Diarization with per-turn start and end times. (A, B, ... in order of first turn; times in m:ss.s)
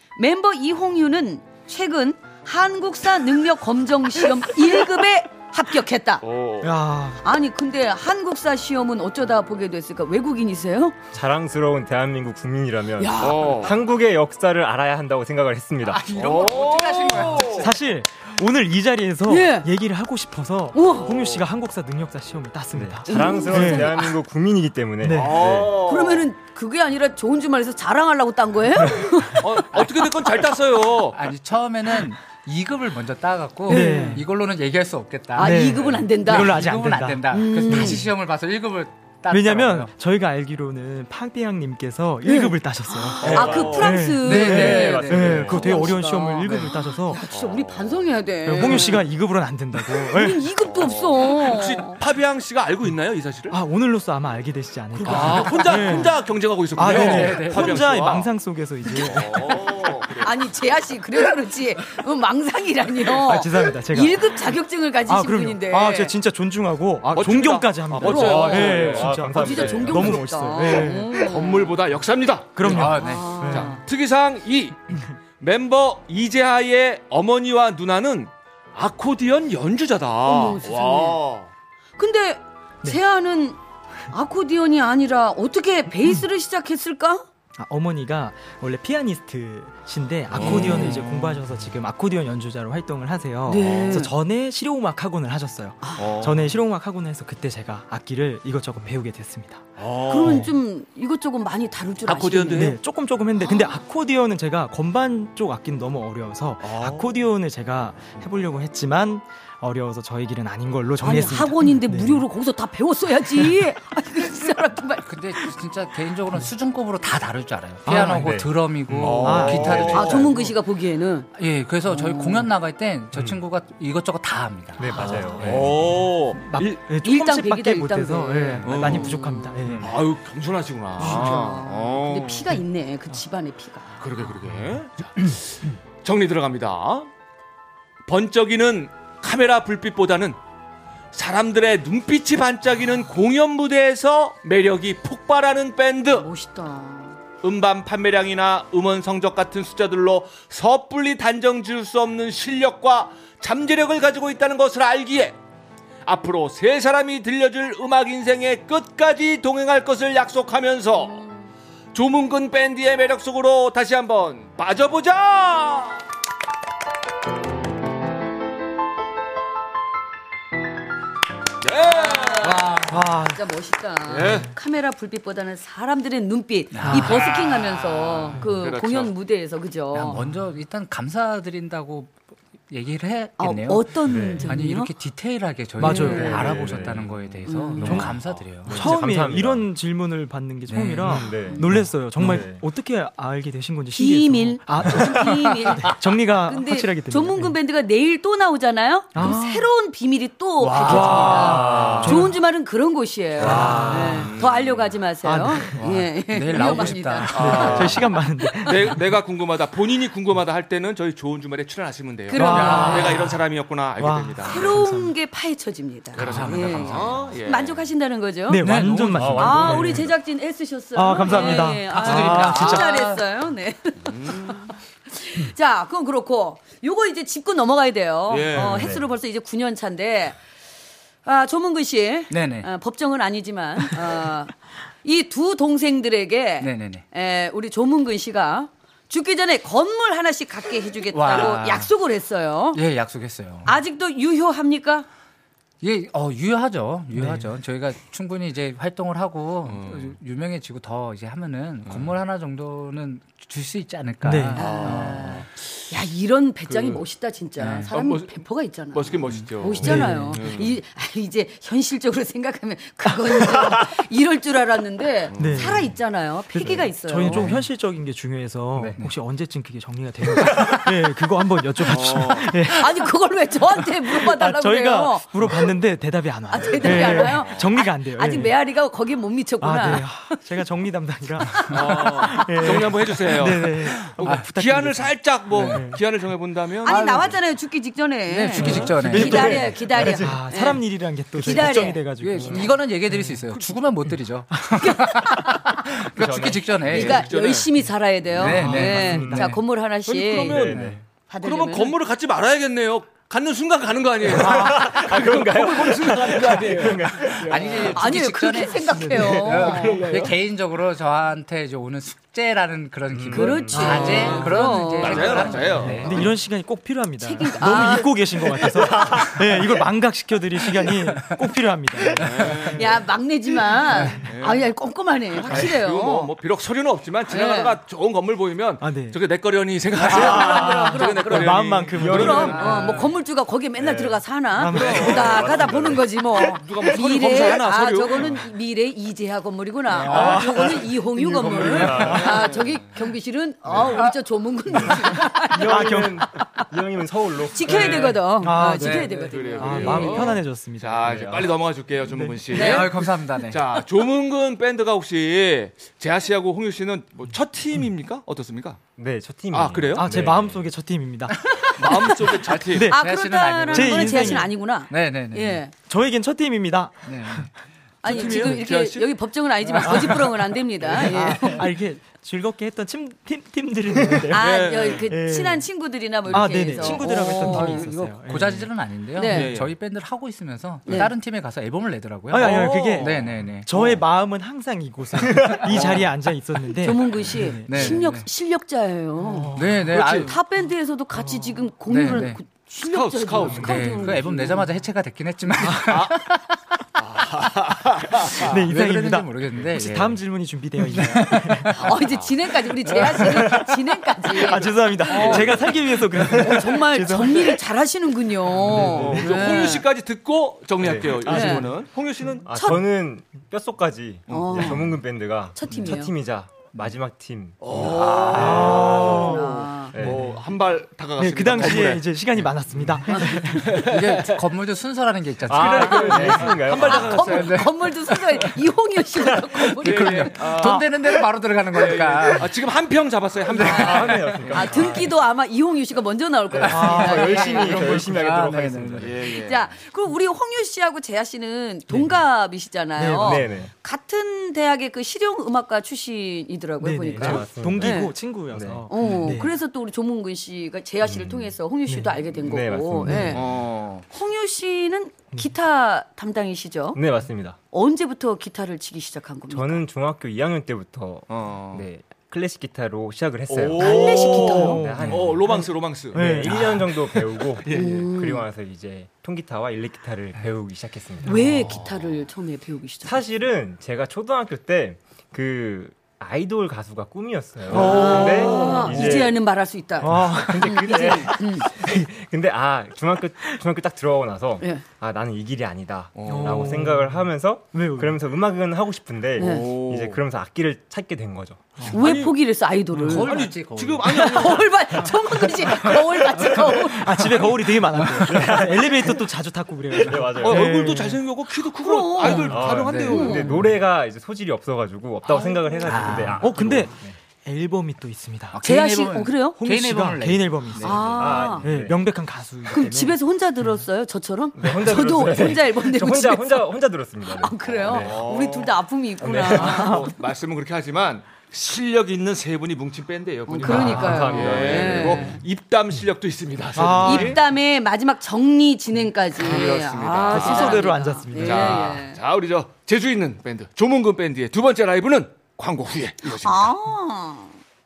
0:00.2-0:06.2 A
0:06.2-0:06.8 B
0:06.6-0:07.2 C
0:07.2-0:11.0 A
0:11.1-0:16.2 D
0:13.0-0:13.6 A
0:13.2-0:13.8 B
0:15.9-0:17.7 E
0:16.2-0:17.7 B
0:17.6-0:24.0 C
0:19.3-0:19.7 A
0:20.7-0:21.2 A
0:20.9-0:21.4 B
0:22.8-0:25.8 D
0:23.1-0:24.2 A
0:25.0-0:25.5 C
0:25.1-0:26.3 B
0:25.8-0:29.6 A
0:29.4-0:31.2 B
0:31.1-0:39.9 E
0:33.7-0:34.2 A
0:33.7-0:34.3 C
0:35.4-0:36.6 A
0:35.4-0:38.1 C
0:37.3-0:38.1 A
0:39.3-0:47.2 C
0:42.2-0:49.1 A
0:43.2-0:46.0 D
0:43.2-0:43.7 B
0:44.2-0:45.6 E
0:47.3-0:48.0 B
0:48.4-0:50.5 C
0:50.1-0:52.0 A
0:50.6-0:53.6 B
0:53.5-0:56.2 C
0:55.0-0:58.3 B
0:55.2-0:55.8 A
0:56.8-0:59.4 C
0:56.8-0:57.8 E
0:58.9-1:00.4 B
1:00.2-1:06.1 A
1:03.1-1:04.5 C
1:05.1-1:11.2 C
1:07.0-1:09.2 B
1:08.0-1:10.3 D
1:08.0-1:11.7 A
1:10.6-1:21.5 B
1:12.6-1:13.7 C
1:12.7-1:13.4 E
1:12.7-1:13.8 A
1:20.3-1:21.2 A
1:22.0-1:23.6 A
1:24.1-1:27.2 A
1:27.6-1:40.5 C
1:30.3-1:31.3 B
1:30.4-1:31.0 A
1:33.5-1:34.1 A
1:36.0-1:36.5 B
1:39.8-1:40.5 B
1:40.1-1:42.8 A
1:42.0-1:42.8 B
1:42.5-1:52.3 C
1:46.6-1:47.1 B
1:51.0-1:55.5 A
1:55.0-2:00.4 E
1:57.9-1:58.5 C
1:58.0-1:59.4 D
1:59.0-2:00.4 B
1:59.0-2:00.2 C
1:59.8-2:01.3 A
2:01.4-2:05.3 E
2:01.9-2:02.4 A
2:03.2-2:03.4 D
2:04.8-2:05.8 D
2:04.9-2:05.2 A
2:05.4-2:06.8 B
2:06.4-2:10.0 C
2:07.0-2:09.7 A
2:08.6-2:09.2 B
2:09.8-2:12.5 B
2:11.0-2:14.0 A
2:14.0-2:17.1 B
2:18.1-2:20.4 B
2:21.1-2:26.3 B
2:26.1-2:27.2 A
2:27.4-2:35.4 B
2:36.0-2:41.2 B
2:41.0-2:41.5 A
2:41.9-2:46.0 B
2:51.6-2:52.8 B
2:52.0-3:00.2 A
2:52.7-2:53.4 C
2:52.7-2:53.0 E
2:54.1-2:54.5 B
2:56.7-2:57.5 E
2:56.9-2:59.1 B
2:59.9-3:02.1 E
3:02.7-3:08.9 E
3:03.4-3:04.9 A
3:04.0-3:04.5 D
3:05.8-3:06.7 C
3:05.8-3:06.5 A
3:05.9-3:09.7 D
3:07.5-3:08.1 A
3:07.8-3:17.6 C
3:10.7-3:11.3 E
3:11.0-3:12.6 D
3:13.9-3:28.0 A
3:19.1-3:19.7 C
3:20.6-3:22.4 C
3:20.9-3:22.3 D
3:23.4-3:24.3 D
3:23.4-3:24.3 C
3:24.1-3:24.9 B
3:25.2-3:25.8 C
3:25.8-3:27.9 E
3:26.5-3:29.0 C
3:27.3-3:34.7 B
3:32.3-3:33.3 A
3:32.4-3:33.4 C
3:34.0-3:35.1 C
3:34.4-3:50.4 A
3:36.2-3:37.9 B
3:36.2-3:37.2 E
3:38.5-3:40.1 C
3:38.6-3:39.4 E
3:39.1-3:40.1 D
3:41.0-3:42.9 C
3:41.2-3:43.2 E
3:44.0-3:44.7 B
3:48.3-3:48.9 B
3:48.5-3:49.1 D
3:51.2-4:02.8 A
3:52.3-3:52.7 E
3:56.6-3:57.0 E
4:01.1-4:01.9 E
4:02.7-4:03.8 E
4:03.6-4:05.1 A
4:05.8-4:15.5 E
4:07.2-4:07.5 C
4:09.7-4:10.1 B
4:11.9-4:12.2 B
4:14.2-4:14.6 C
4:14.6-4:27.5 A
4:14.6-4:15.5 B
4:16.7-4:17.0 B
4:17.6-4:17.9 E
4:17.9-4:18.3 B
4:18.9-4:20.8 B
4:19.8-4:20.4 C
4:25.3-4:25.9 B
4:25.4-4:26.0 C
4:26.6-4:33.1 C
4:26.6-4:27.6 D
4:30.6-4:30.9 E
4:31.8-4:32.6 B
4:32.6-4:35.7 A
4:33.8-4:38.6 C
4:36.5-4:40.1 A
4:39.6-4:46.0 C
4:41.7-4:47.0 B
4:44.0-4:44.5 E
4:45.5-4:45.9 E
4:46.8-4:47.4 E
4:46.8-4:52.1 A
4:48.3-4:49.6 E
4:48.6-4:50.4 D
4:48.6-4:48.9 B
4:48.7-4:53.7 C
4:51.6-4:57.3 E
4:54.5-4:54.9 C
4:54.8-4:55.6 A
4:56.0-4:57.0 D
4:56.8-5:00.8 A
4:56.9-4:57.7 B
4:58.4-4:59.6 E
4:58.4-4:59.6 C
4:58.5-4:59.4 D
5:00.1-5:08.0 B
5:00.4-5:01.0 D
5:01.3-5:02.0 A
5:04.3-5:07.8 D
5:04.5-5:04.8 C
5:07.5-5:16.2 E
5:07.8-5:10.2 A
5:09.0-5:09.4 C
5:09.6-5:10.3 B
5:13.1-5:14.4 D
5:13.3-5:15.6 A
5:13.7-5:14.3 C
5:14.0-5:14.5 B
5:15.0-5:16.3 B
5:15.7-5:22.8 C
5:17.2-5:19.1 A
5:22.2-5:22.9 B
5:22.7-5:26.3 A
5:24.2-5:24.7 B
5:25.4-5:33.0 B
5:27.3-5:27.8 A
5:28.8-5:29.2 C
5:30.0-5:32.7 D
5:30.1-5:46.7 A
5:30.1-5:30.6 C
5:31.3-5:32.6 C
5:32.5-5:33.0 E
5:33.8-5:36.8 D
5:34.6-5:35.6 C
5:34.7-5:35.6 B
5:36.4-5:38.4 B
5:39.9-5:40.6 E
5:40.1-5:40.8 C
5:40.2-5:42.5 D
5:41.6-5:42.1 E
5:41.7-5:42.4 C
5:42.0-5:42.8 B
5:43.9-5:44.1 E
5:45.5-5:48.2 D
5:45.7-5:46.3 C
5:47.5-5:50.4 A
5:47.6-5:48.2 B
5:47.9-5:51.2 C
5:47.9-5:49.1 E
5:48.9-5:50.0 D
5:49.1-5:58.8 B
5:51.0-5:51.5 D
5:52.0-5:52.5 C
5:52.5-5:53.7 E
5:52.5-5:52.9 A
5:59.0-6:00.7 D
5:59.5-6:00.2 B
5:59.9-6:01.4 C
6:01.4-6:01.8 E
6:01.6-6:05.7 A
6:01.8-6:02.9 B
6:02.4-6:05.6 E
6:02.7-6:03.0 C
6:03.7-6:04.5 C
6:05.9-6:07.5 C
6:07.1-6:07.5 E
6:08.0-6:11.7 A
6:08.0-6:09.1 B
6:08.1-6:08.6 C
6:09.6-6:15.6 C
6:14.3-6:17.9 A
6:14.4-6:15.0 B
6:16.3-6:18.7 C
6:16.7-6:23.7 E
6:19.2-6:19.5 A
6:19.3-6:19.7 B
6:20.9-6:21.1 A
6:22.3-6:28.0 C
6:22.3-6:24.0 B
6:25.2-6:26.0 D
6:25.7-6:26.0 B
6:26.8-6:34.7 A
6:27.7-6:28.3 E
6:29.2-6:30.2 C
6:29.5-6:30.4 E
6:31.1-6:31.7 C
6:31.9-6:32.4 E
6:32.8-6:34.1 B
6:33.6-6:36.4 E
6:35.8-6:36.3 B
6:37.0-6:38.6 B
6:38.2-6:41.9 C
6:38.4-6:40.2 E
6:40.9-6:41.8 E
6:41.6-6:49.9 A
6:41.9-6:42.5 B
6:42.9-6:43.5 E
6:43.0-6:47.6 C
6:44.5-6:45.8 B
6:48.6-6:49.6 C
6:48.7-6:52.5 B
6:48.9-6:49.2 D
6:50.8-6:51.7 D
6:51.3-6:51.7 A
6:52.4-6:59.2 D
6:52.5-6:52.8 A
6:54.3-6:54.8 B
6:54.3-6:55.0 A
6:55.5-6:56.2 A
6:57.6-7:02.2 B
6:58.3-6:59.5 C
6:58.4-7:00.0 A
6:59.9-7:00.4 D
7:01.2-7:03.8 C
7:03.2-7:08.6 E
7:03.6-7:04.4 B
7:05.5-7:07.3 D
7:05.5-7:07.7 B
7:05.9-7:10.5 A
7:09.6-7:12.5 E
7:09.8-7:10.9 B
7:10.6-7:10.9 C
7:11.7-7:14.6 B
7:13.6-7:15.1 D
7:13.6-7:14.8 E
7:13.6-7:18.0 A
7:16.6-7:19.2 D
7:16.7-7:18.0 C
7:16.7-7:19.1 E
7:19.0-7:19.7 B
7:19.2-7:28.2 A
7:21.9-7:22.2 C
7:23.0-7:23.6 C
7:23.1-7:23.7 D
7:26.8-7:29.6 C
7:27.2-7:28.9 D
7:28.9-7:33.5 A
7:31.0-7:31.6 D
7:31.9-7:32.1 C
7:32.4-7:33.5 D
7:33.0-7:33.4 C
7:33.3-7:34.0 B
7:34.1-7:37.0 A
7:36.9-7:37.6 D
7:37.7-7:39.8 A
7:39.5-7:51.4 D
7:41.3-7:41.9 B
7:43.5-7:46.9 B
7:43.8-7:44.9 A
7:44.0-7:47.2 C
7:47.6-7:48.1 B
7:47.7-7:48.4 A
7:51.2-7:53.2 A
7:51.3-7:51.6 C
7:51.6-7:52.1 B
7:53.0-7:59.4 D
7:57.7-7:59.2 B
7:57.7-8:01.7 A
7:57.7-7:59.2 C
8:00.0-8:01.2 C
8:00.0-8:11.9 D
8:06.2-8:06.7 B
8:06.3-8:07.2 C
8:07.7-8:08.2 C
8:09.4-8:09.7 A
8:09.4-8:10.2 B
8:11.9-8:13.5 A
8:11.9-8:12.4 B
8:13.0-8:14.6 E
8:13.3-8:14.7 B
8:14.0-8:17.5 A
8:16.5-8:21.2 C
8:18.0-8:18.3 E
8:18.2-8:19.2 D
8:20.0-8:20.8 D
8:20.4-8:23.7 B
8:21.8-8:23.6 A
8:22.4-8:27.2 D
8:22.8-8:23.6 E
8:25.2-8:26.0 B
8:25.9-8:26.5 E
8:26.4-8:28.6 C
8:28.5-8:31.2 E
8:28.6-8:29.6 A
8:29.6-8:33.2 C
8:30.8-8:31.7 A
8:31.1-8:32.0 D
8:32.7-8:40.1 A
8:34.6-8:38.3 D
8:37.8-8:47.4 B
8:39.2-8:39.9 D
8:39.6-8:40.1 C
8:43.5-8:45.4 A
8:43.6-8:45.4 D
8:46.8-8:47.4 C
8:47.0-8:52.2 A
8:49.4-8:56.7 B
8:50.3-8:52.0 C
8:56.3-8:57.5 A